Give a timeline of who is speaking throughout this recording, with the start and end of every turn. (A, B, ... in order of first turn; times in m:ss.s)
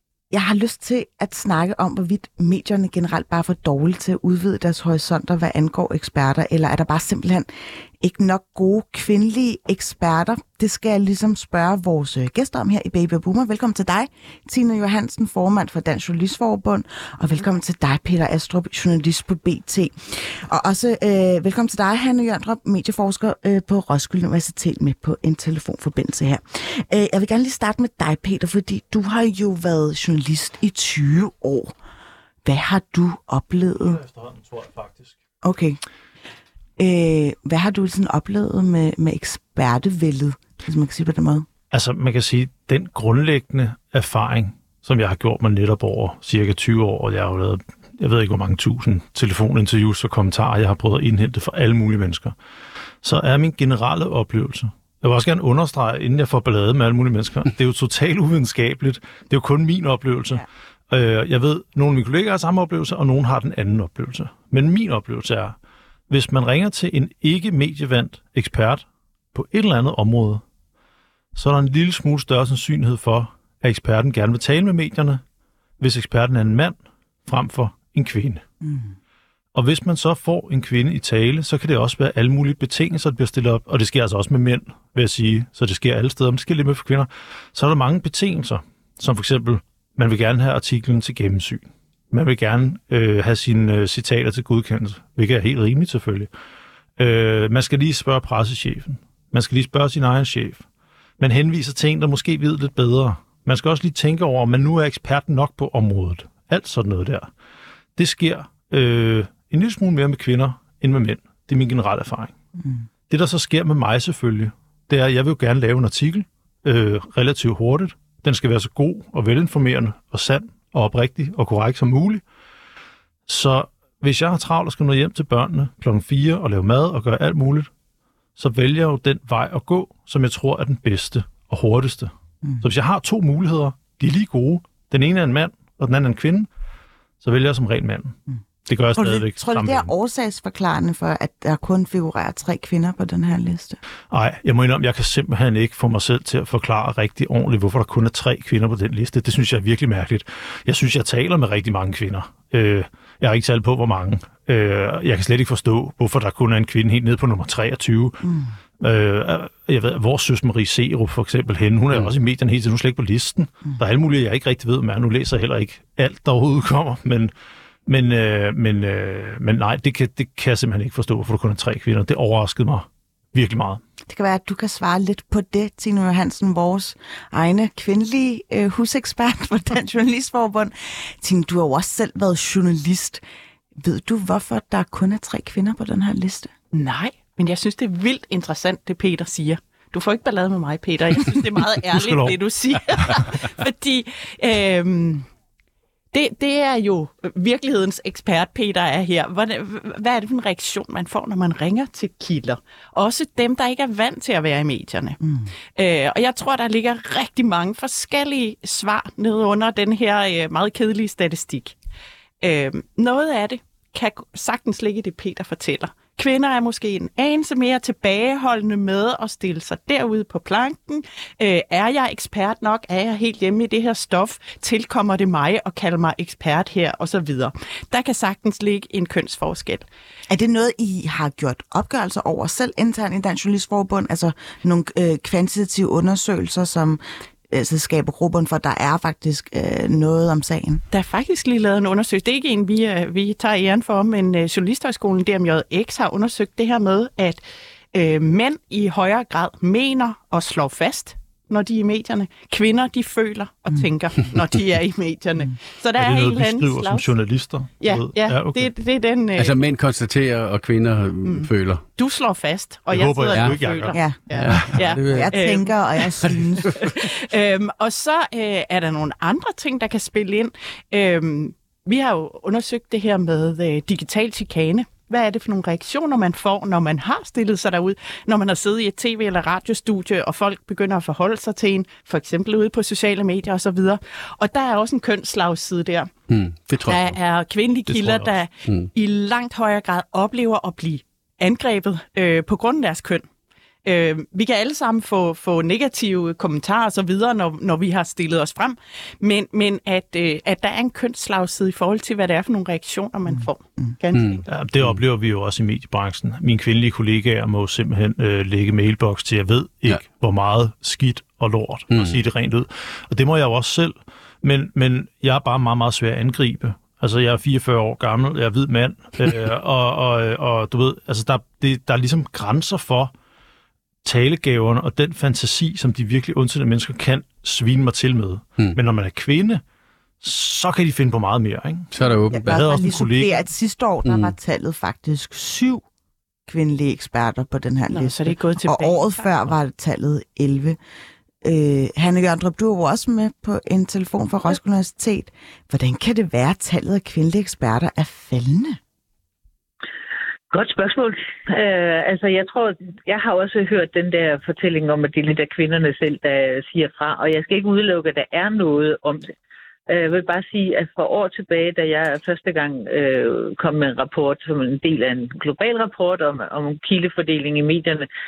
0:00.3-0:31.7 A
0:32.4-0:34.0 A
0:33.8-0:35.2 B
0:35.4-0:35.8 A
0:36.8-0:41.5 A
0:41.7-0:52.3 B
0:53.0-1:05.6 B
1:06.1-1:10.4 B
1:11.3-1:15.2 B
1:15.8-1:18.4 B
1:18.6-1:18.9 A
1:19.5-1:36.3 B
1:37.0-1:40.6 B
1:41.2-1:47.3 B
1:48.0-1:52.3 B
1:53.1-2:02.2 B
2:03.3-2:07.7 B
2:08.4-2:16.5 B
2:17.2-2:19.9 B
2:18.9-2:23.8 A
2:24.1-2:38.2 B
2:38.2-2:38.5 A
2:38.8-2:47.3 B
2:47.9-2:53.8 B
2:54.1-3:03.2 A
3:03.8-3:06.5 A
3:06.7-3:15.3 C
3:11.9-3:12.4 B
3:16.1-3:25.2 C
3:25.2-3:25.5 A
3:25.7-3:31.8 C
3:32.4-3:49.9 C
3:50.3-4:00.8 A
4:00.9-4:07.4 C
4:07.9-4:17.1 C
4:16.0-4:18.7 B
4:17.8-4:19.6 C
4:19.4-4:21.9 D
4:21.2-4:46.1 C
4:22.9-4:23.9 B
4:23.3-4:23.6 D
4:23.9-4:26.8 A
4:24.3-4:25.4 D
4:46.3-4:47.2 D
4:46.9-4:53.3 C
4:47.9-4:48.3 B
4:53.8-5:04.4 C
5:04.2-5:05.0 D
5:04.4-5:23.1 B
5:11.9-5:12.2 D
5:24.0-5:29.6 B
5:30.2-5:31.9 B
5:31.9-5:33.0 D
5:32.3-5:35.8 A
5:32.4-5:33.4 B
5:34.0-5:34.3 D
5:36.4-5:40.8 A
5:37.9-5:39.5 C
5:41.4-5:48.8 A
5:50.5-5:59.3 E
5:59.9-6:08.1 E